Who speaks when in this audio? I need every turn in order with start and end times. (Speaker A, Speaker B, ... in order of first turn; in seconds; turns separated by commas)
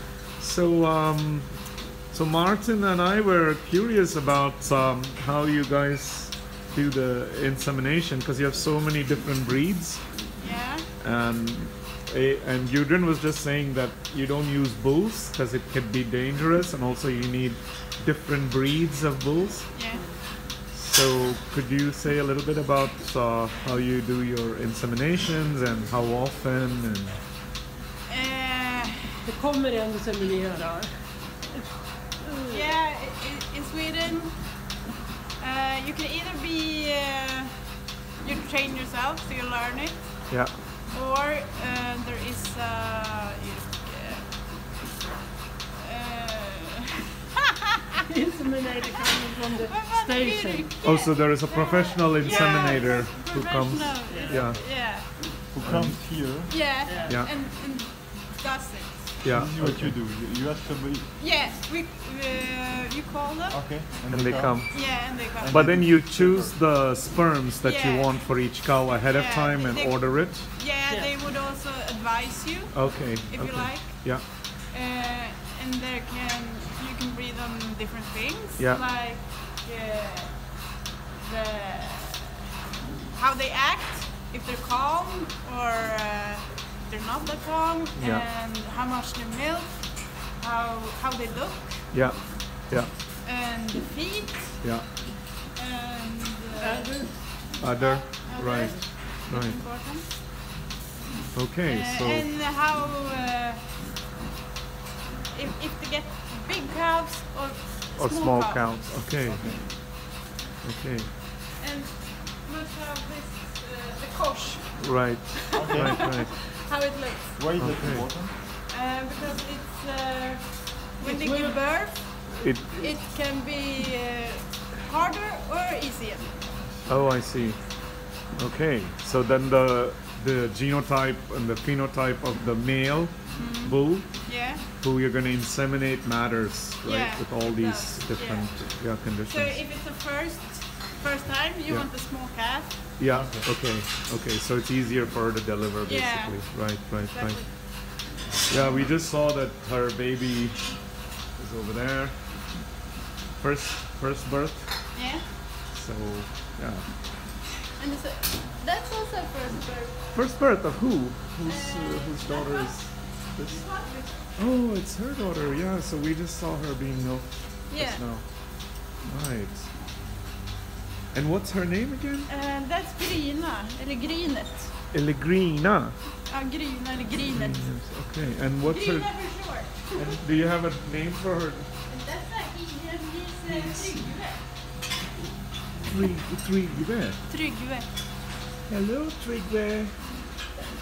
Speaker A: 0.4-10.5, Speaker B: 10.4-10.9, Speaker A: 11.0-20.0, Speaker B: 19.7-20.1, Speaker C: 19.9-20.2, Speaker A: 20.6-27.2, Speaker B: 28.1-29.2, Speaker C: 29.3-32.7, Speaker B: 32.5-34.8, Speaker B: 35.4-44.6, Speaker A: 40.3-40.6, Speaker B: 45.8-46.9, Speaker C: 48.1-50.7, Speaker B: 49.5-55.2, Speaker A: 50.8-55.0, Speaker C: 52.3-52.8, Speaker C: 54.1-54.4, Speaker D: 55.5-56.9, Speaker A: 55.6-57.3, Speaker B: 56.5-59.2, Speaker C: 56.9-57.1, Speaker A: 59.2-60.0, Speaker D: 59.3-61.1, Speaker B: 61.2-63.8, Speaker D: 63.5-66.6, Speaker A: 64.1-70.5, Speaker B: 64.7-65.8, Speaker B: 67.6-68.3, Speaker B: 69.1-82.4, Speaker C: 70.9-71.1, Speaker A: 72.7-74.3, Speaker A: 78.6-78.8, Speaker B: 83.1-92.2, Speaker A: 88.0-88.2, Speaker A: 91.9-92.9, Speaker B: 93.2-100.2, Speaker A: 94.6-94.9, Speaker C: 96.6-97.3, Speaker A: 97.6-99.6, Speaker A: 101.3-102.3, Speaker B: 101.7-103.7, Speaker B: 105.3-109.1, Speaker A: 108.0-109.9, Speaker D: 109.2-109.7, Speaker A: 110.6-111.1, Speaker B: 111.6-117.7, Speaker A: 114.8-116.3, Speaker D: 115.6-116.1, Speaker D: 117.4-118.4, Speaker A: 117.6-118.1, Speaker B: 118.4-126.4, Speaker C: 121.0-121.6, Speaker A: 122.3-123.2, Speaker D: 126.2-127.1, Speaker A: 126.9-139.6, Speaker B: 133.3-134.6, Speaker B: 136.8-142.9, Speaker A: 141.7-141.9, Speaker A: 143.0-152.6, Speaker D: 143.1-143.5, Speaker B: 145.8-148.2, Speaker D: 148.3-148.9, Speaker A: 153.4-155.0, Speaker B: 154.9-155.3, Speaker A: 155.7-156.9, Speaker B: 157.8-160.1, Speaker A: 160.1-169.7, Speaker B: 161.4-164.2, Speaker B: 167.7-168.1, Speaker A: 171.1-172.3, Speaker B: 172.3-174.8, Speaker A: 174.9-176.0, Speaker B: 176.2-177.9, Speaker A: 177.3-181.7, Speaker B: 178.7-180.0, Speaker B: 181.9-184.4, Speaker A: 183.5-184.3, Speaker A: 185.8-187.3, Speaker B: 187.3-187.9, Speaker A: 188.7-190.3